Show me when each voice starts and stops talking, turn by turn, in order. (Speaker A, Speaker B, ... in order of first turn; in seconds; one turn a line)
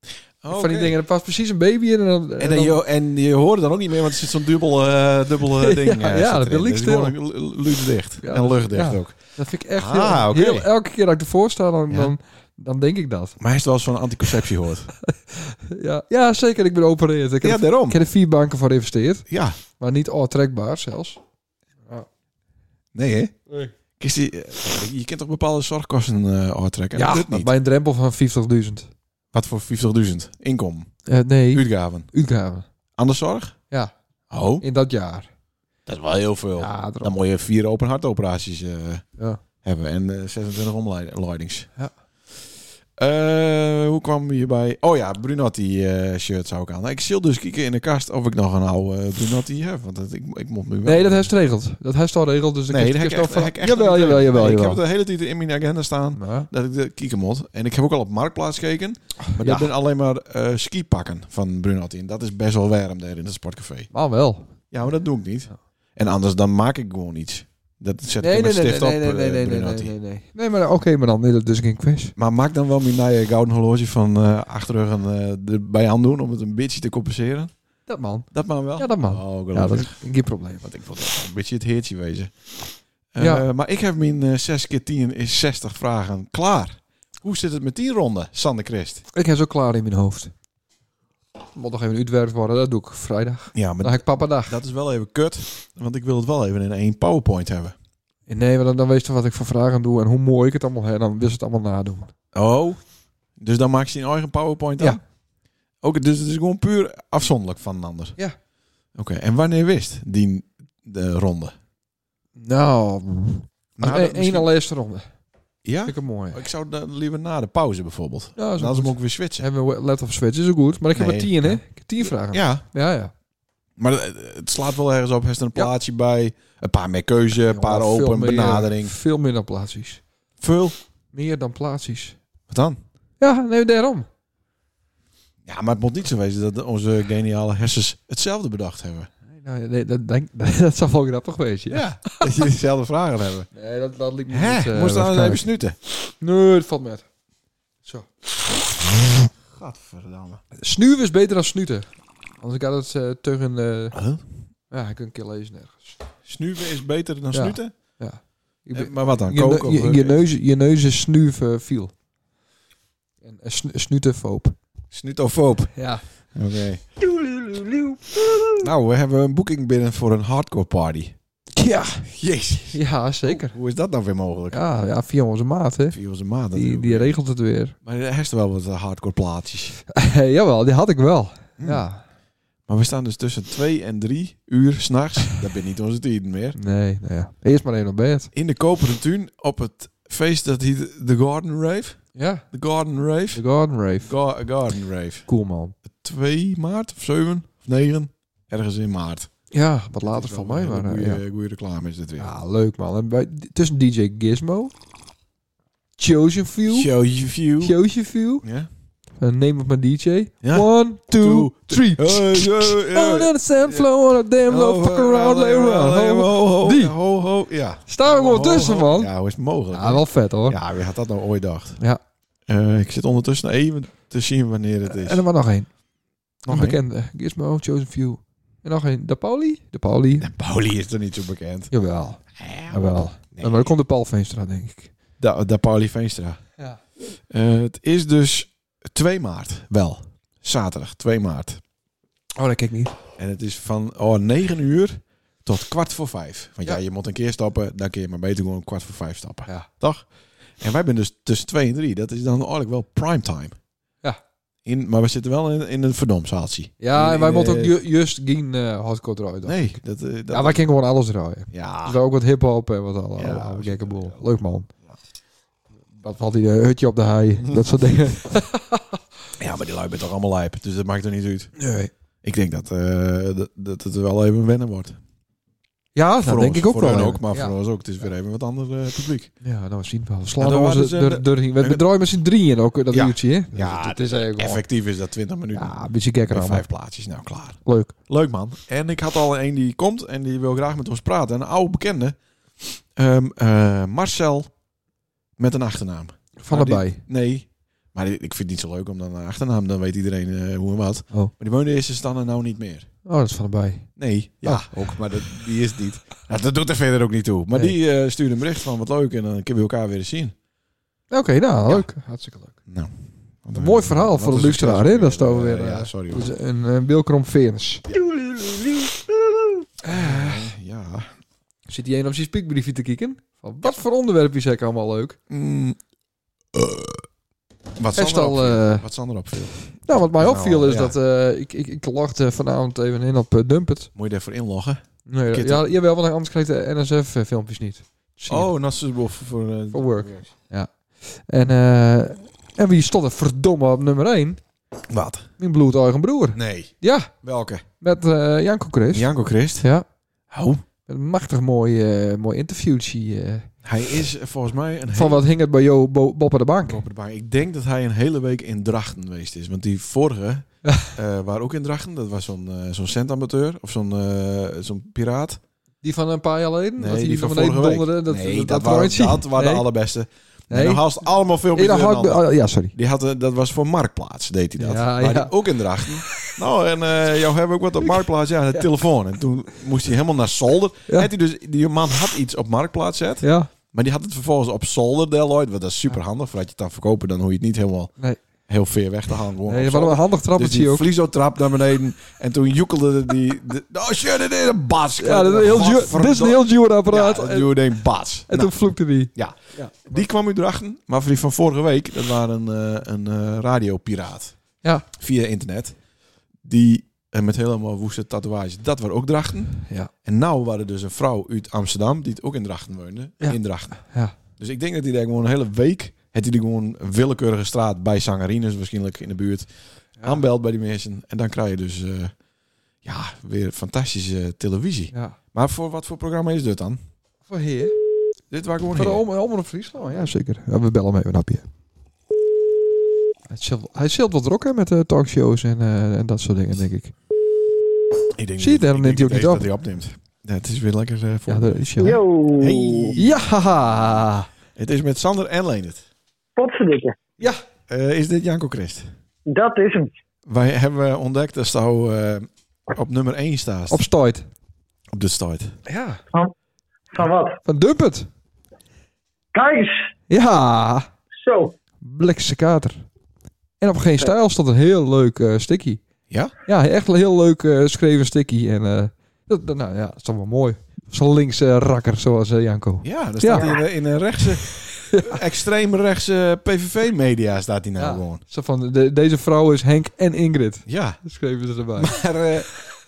Speaker A: 0.4-1.0
Speaker B: 0.5-2.8
Speaker A: 2.4-10.7
Speaker B: 5.6-7.2
Speaker B: 8.2-13.4
Speaker A: 13.4-14.9
Speaker B: 15.0-19.2
Speaker A: 17.4-18.0
Speaker A: 19.3-19.6
Speaker B: 19.8-21.2
Speaker A: 22.9-23.4
Speaker A: 24.0-27.5
Speaker B: 26.9-28.9
Speaker A: 29.3-32.1
Speaker B: 31.1-32.7
Speaker A: 33.0-33.6
Speaker A: 34.3-34.6
Speaker B: 34.6-35.3
Speaker A: 35.9-39.0
Speaker B: 36.6-37.1
Speaker A: 39.6-41.7
Speaker A: 43.0-51.3
Speaker B: 50.9-54.8
Speaker A: 52.7-63.9
Speaker B: 56.1-56.5
Speaker B: 59.3-59.7
Speaker B: 63.9-64.5
Speaker A: 64.7-70.0
Speaker B: 68.2-72.1
Speaker A: 72.2-77.5
Speaker B: 77.9-80.6
Speaker A: 78.3-80.0
Speaker A: 80.6-82.3
Speaker A: 83.1-89.0
Speaker B: 83.2-83.5
Speaker B: 89.1-90.3
Speaker B: 91.5-94.6
Speaker A: 93.5-97.8
Speaker B: 98.3-102.1
Speaker A: 102.3-102.8
Speaker A: 103.4-105.0
Speaker A: 105.8-108.2
Speaker A: 109.0-111.5
Speaker B: 112.4-115.1
Speaker A: 113.8-114.5
Speaker A: 115.7-119.5
Speaker B: 115.9-116.4
Speaker B: 118.4-123.1
Speaker A: 120.9-121.6
Speaker A: 122.2-122.6
Speaker A: 123.8-128.9
Speaker B: 127.5-130.0
Speaker A: 130.4-130.8
Speaker B: 131.1-132.2
Speaker A: 132.5-132.8
Speaker B: 133.2-134.1
Speaker A: 135.5-139.1
Speaker B: 139.3-142.3
Speaker A: 141.7-143.5
Speaker B: 143.5-145.5
Speaker A: 144.3-145.8
Speaker B: 146.2-147.1
Speaker A: 149.2-150.4
Speaker B: 150.6-151.9
Speaker B: 152.4-154.0
Speaker A: 153.9-154.2
Speaker B: 154.7-156.0
Speaker A: 156.3-157.7
Speaker B: 157.3-161.9
Speaker A: 158.7-160.2
Speaker B: 163.2-164.6
Speaker A: 164.9-165.8
Speaker B: 165.8-166.0
Speaker A: 166.3-166.8
Speaker B: 167.1-168.6
Speaker A: 168.6-171.2
Speaker B: 171.6-172.1
Speaker A: 172.1-174.6
Speaker B: 172.7-173.6
Speaker B: 174.5-176.0
Speaker A: 175.9-177.2
Speaker B: 176.5-177.8
Speaker A: 177.8-179.8
Speaker B: 179.9-182.0
Speaker A: 181.6-181.8
Speaker A: 182.7-186.6
Speaker B: 186.6-188.3
Speaker A: 188.3-193.4
Speaker B: 192.2-192.5
Speaker B: 193.3-194.1
Speaker A: 194.0-195.3
Speaker B: 195.3-195.8
Speaker A: 195.9-199.3
Speaker B: 199.5-201.2
Speaker A: 200.0-202.3
Speaker B: 202.2-204.7
Speaker B: 206.0-206.9
Speaker A: 206.7-207.8
Speaker B: 207.6-208.4
Speaker A: 208.4-208.7
Speaker B: 209.2-216.9
Speaker A: 210.4-213.9
Speaker A: 214.5-221.8
Speaker B: 217.9-219.1
Speaker B: 219.7-220.6
Speaker A: 222.5-225.2
Speaker B: 224.9-225.7
Speaker A: 226.4-226.8
Speaker B: 226.5-230.3
Speaker A: 230.2-231.7
Speaker B: 231.7-234.9
Speaker A: 232.3-233.7
Speaker A: 235.2-236.4
Speaker A: 237.1-241.6
Speaker B: 242.4-243.0
Speaker A: 243.2-250.1
Speaker A: 250.6-253.5
Speaker A: 254.7-257.8
Speaker B: 256.8-259.8
Speaker A: 259.4-260.6
Speaker B: 260.3-264.7
Speaker A: 261.5-262.0
Speaker A: 263.2-264.3
Speaker B: 266.0-268.8
Speaker A: 269.4-271.6
Speaker B: 271.6-271.9
Speaker A: 272.2-275.0
Speaker B: 275.9-277.6
Speaker A: 276.2-279.3
Speaker B: 279.4-284.6
Speaker A: 280.4-281.8
Speaker A: 282.9-285.8
Speaker B: 285.5-286.7
Speaker A: 286.3-294.5
Speaker B: 287.6-287.9
Speaker A: 295.4-302.9
Speaker B: 296.4-297.0
Speaker B: 303.1-303.9
Speaker A: 304.0-310.3
Speaker B: 304.4-305.0
Speaker B: 311.1-312.6
Speaker A: 312.7-312.9
Speaker A: 313.4-316.3
Speaker B: 313.5-317.9
Speaker B: 319.8-320.5
Speaker A: 319.9-321.1
Speaker B: 321.7-325.2
Speaker A: 325.3-325.8
Speaker A: 326.5-327.1
Speaker A: 327.8-330.9
Speaker B: 328.0-328.9
Speaker B: 329.9-333.9
Speaker A: 333.9-335.6
Speaker B: 335.1-338.5
Speaker A: 338.3-340.3
Speaker B: 339.7-344.4
Speaker A: 344.9-345.3
Speaker B: 345.4-347.1
Speaker A: 346.3-347.6
Speaker B: 347.8-349.1
Speaker A: 348.9-349.7
Speaker B: 349.6-349.9
Speaker A: 350.3-350.6
Speaker B: 350.9-353.5
Speaker A: 353.6-355.2
Speaker B: 354.9-356.8
Speaker A: 356.7-365.4
Speaker B: 365.8-369.6
Speaker A: 366.8-387.9
Speaker B: 370.5-370.8
Speaker B: 371.5-372.7
Speaker B: 374.6-375.3
Speaker B: 383.2-383.5
Speaker A: 388.5-405.8
Speaker B: 389.5-390.9
Speaker B: 395.0-397.5
Speaker B: 398.3-400.0
Speaker A: 406.4-422.1
Speaker B: 413.2-414.1
Speaker A: 422.8-426.8
Speaker B: 427.3-427.8
Speaker A: 428.3-429.0
Speaker B: 428.8-431.4
Speaker B: 433.3-436.9
Speaker A: 438.2-441.6
Speaker B: 438.4-439.5
Speaker B: 441.3-442.0
Speaker C: 441.8-443.0
Speaker A: 442.4-443.3
Speaker B: 443.0-444.3
Speaker A: 444.6-445.8
Speaker C: 446.4-447.0
Speaker A: 447.2-448.9
Speaker C: 449.3-449.9
Speaker A: 450.3-453.9
Speaker B: 453.7-454.3
Speaker A: 454.9-455.6
Speaker B: 455.7-456.0
Speaker C: 456.9-457.4
Speaker B: 457.4-458.1
Speaker C: 459.3-459.9
Speaker B: 460.1-460.9
Speaker C: 461.2-461.6
Speaker B: 461.8-462.8
Speaker B: 463.6-465.8
Speaker B: 466.5-473.5
Speaker A: 472.8-478.2
Speaker B: 474.9-475.2
Speaker B: 477.8-482.0
Speaker A: 480.7-481.0
Speaker A: 481.8-482.5